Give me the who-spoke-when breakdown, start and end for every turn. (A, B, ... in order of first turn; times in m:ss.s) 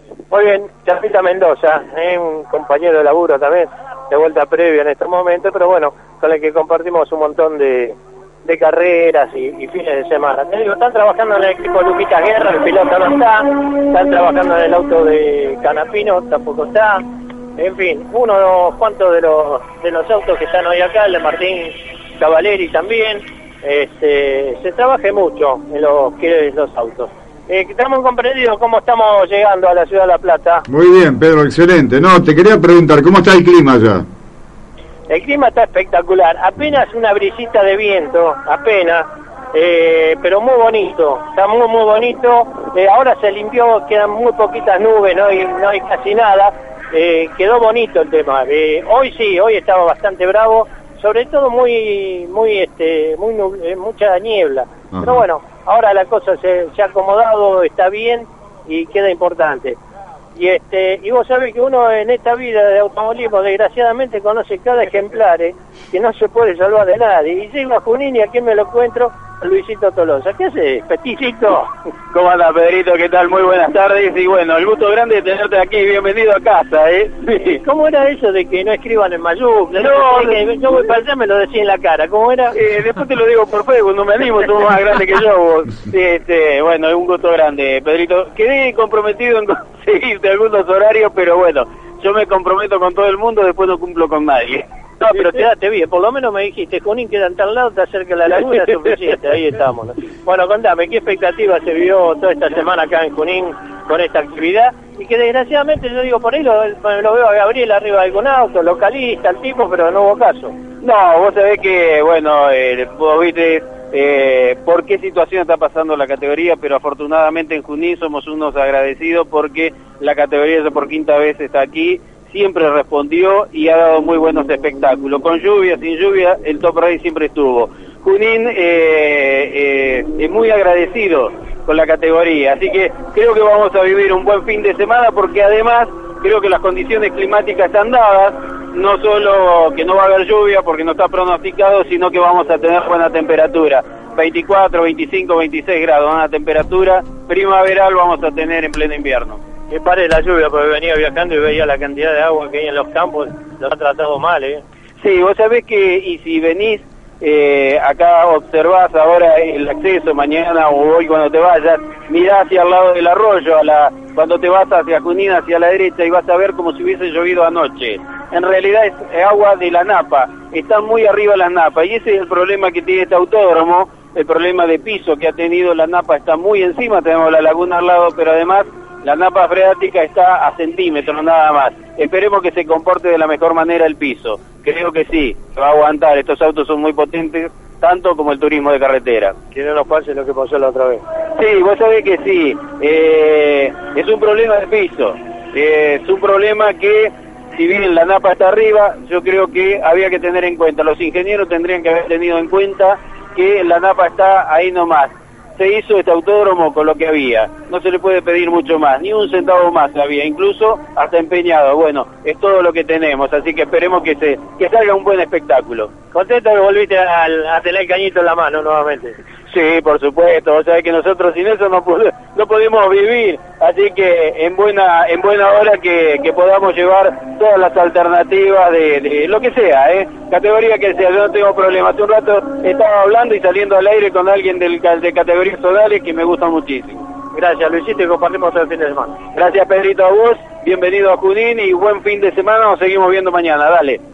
0:00.3-0:17.0 A
0:17.6-0:30.6 A
0:30.7-0:34.0 B
0:35.1-0:59.8 A
0:54.9-0:55.2 B
1:00.4-1:11.7 A
1:12.1-1:17.6 C
1:17.6-1:22.5 A
1:19.8-1:20.4 C
1:22.5-1:35.3 C
1:35.0-1:50.5 A
1:50.8-2:29.4 C
2:29.7-2:34.6 A
2:35.0-3:09.4 C
3:09.5-3:11.0 A
3:11.4-3:35.9 C
3:36.1-3:39.2 A
3:39.5-3:57.0 C
3:57.3-3:59.2 A
3:59.3-4:04.0 C